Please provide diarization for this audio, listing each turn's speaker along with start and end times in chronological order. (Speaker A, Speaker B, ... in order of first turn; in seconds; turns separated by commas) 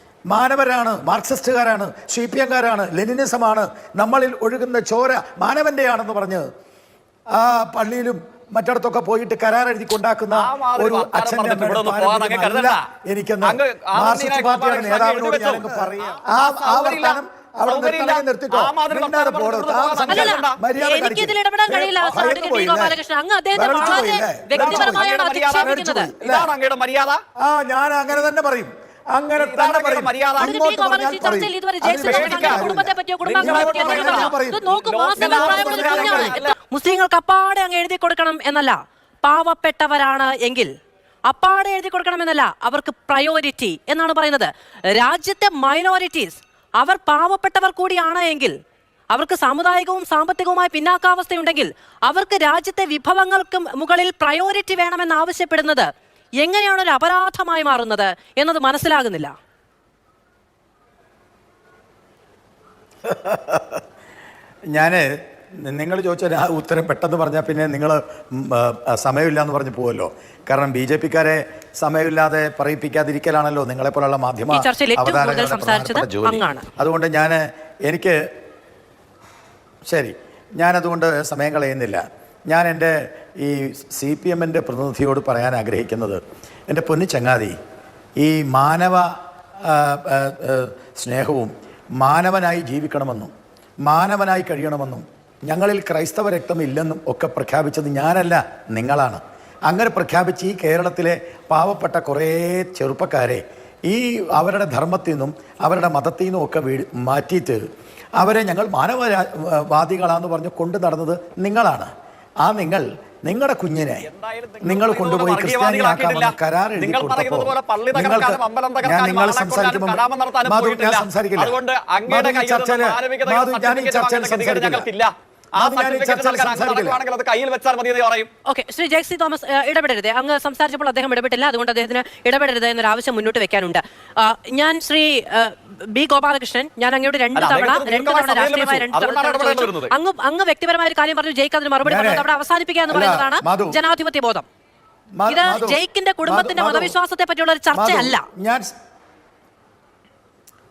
Speaker A: 0.3-6.5, Speaker A: 7.3-23.0, Speaker B: 10.3-12.8, Speaker B: 13.4-20.6, Speaker C: 20.1-26.1, Speaker A: 23.6-25.1, Speaker B: 24.5-27.2, Speaker A: 25.6-26.5, Speaker A: 27.4-34.7, Speaker B: 29.3-30.7, Speaker C: 30.4-40.7, Speaker B: 32.0-36.5, Speaker A: 35.2-36.4, Speaker C: 41.3-48.5, Speaker C: 49.1-55.9, Speaker C: 56.4-59.3, Speaker A: 63.0-63.8, Speaker A: 64.7-65.1, Speaker A: 65.7-78.2, Speaker C: 74.5-76.7, Speaker A: 79.9-87.6, Speaker A: 88.2-89.1, Speaker A: 89.7-93.3, Speaker A: 93.8-107.6, Speaker A: 108.2-111.9, Speaker A: 112.4-114.1, Speaker B: 114.0-128.3, Speaker A: 114.6-124.9, Speaker A: 125.6-127.0, Speaker C: 128.5-144.5, Speaker B: 137.3-139.9, Speaker A: 141.8-142.3, Speaker A: 142.9-143.8, Speaker A: 145.2-146.9, Speaker C: 145.3-148.2, Speaker A: 147.7-148.7